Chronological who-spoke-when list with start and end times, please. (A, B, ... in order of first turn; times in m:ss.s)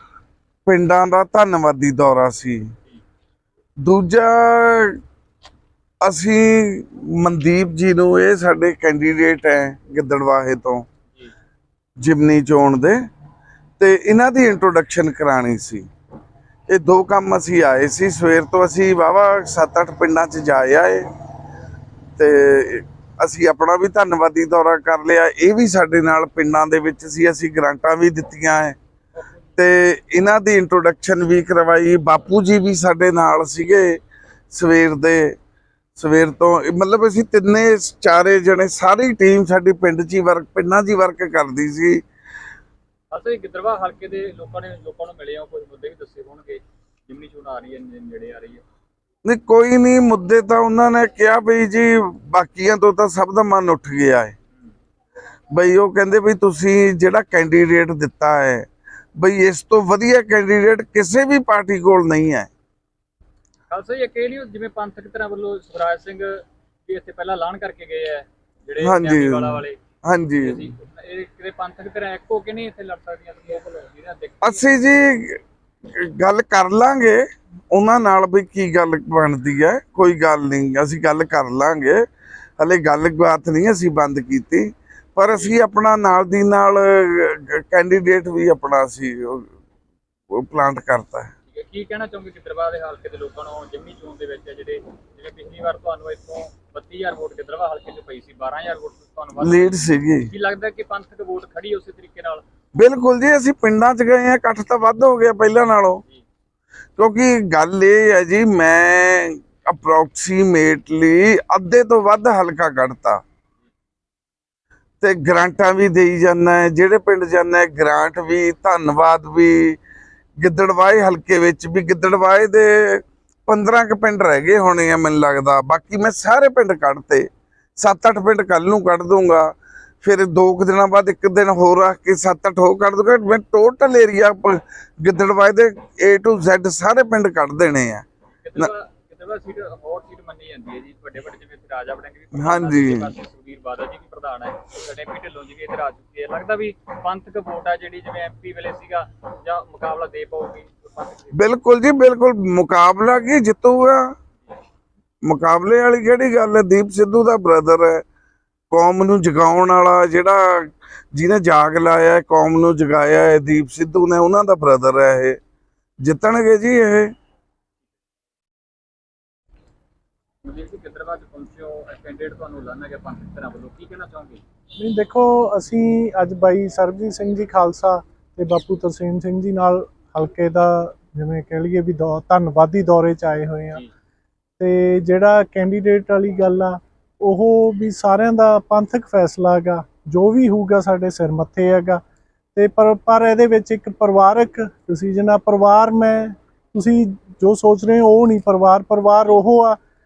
0:00.7-0:02.7 A
0:03.8-0:05.0 A
0:06.0-0:10.8 A
0:12.0-0:13.0 A
0:13.8-0:15.9 A
0:16.7-0:21.1 A
0:22.2-0:28.8 A
0:29.6-0:34.0 A
0:34.5-0:35.4 A
0:36.0-0:42.0 A
0:43.1-0:48.6 B
0:49.2-0:54.3 A
0:55.5-1:02.5 A
1:03.7-1:09.8 B
1:08.8-1:10.6 A
1:10.4-1:14.7 B
1:14.4-1:22.0 A
1:22.6-1:29.5 A
1:25.3-1:25.6 B
1:30.3-1:31.3 A
1:31.5-1:42.4 B
1:39.4-1:40.3 A
1:42.8-1:46.0 A
1:47.0-1:53.2 A
1:55.0-1:59.8 A
2:00.4-2:07.3 A
2:07.8-2:18.0 A
2:18.4-2:31.4 B
2:22.4-2:23.1 A
2:31.4-2:34.1 A
2:35.3-2:38.0 A
2:38.7-2:45.4 A
2:46.0-2:47.1 A
2:50.4-2:54.4 B
2:54.8-3:03.8 C
3:04.6-3:12.0 C
3:12.6-3:19.8 C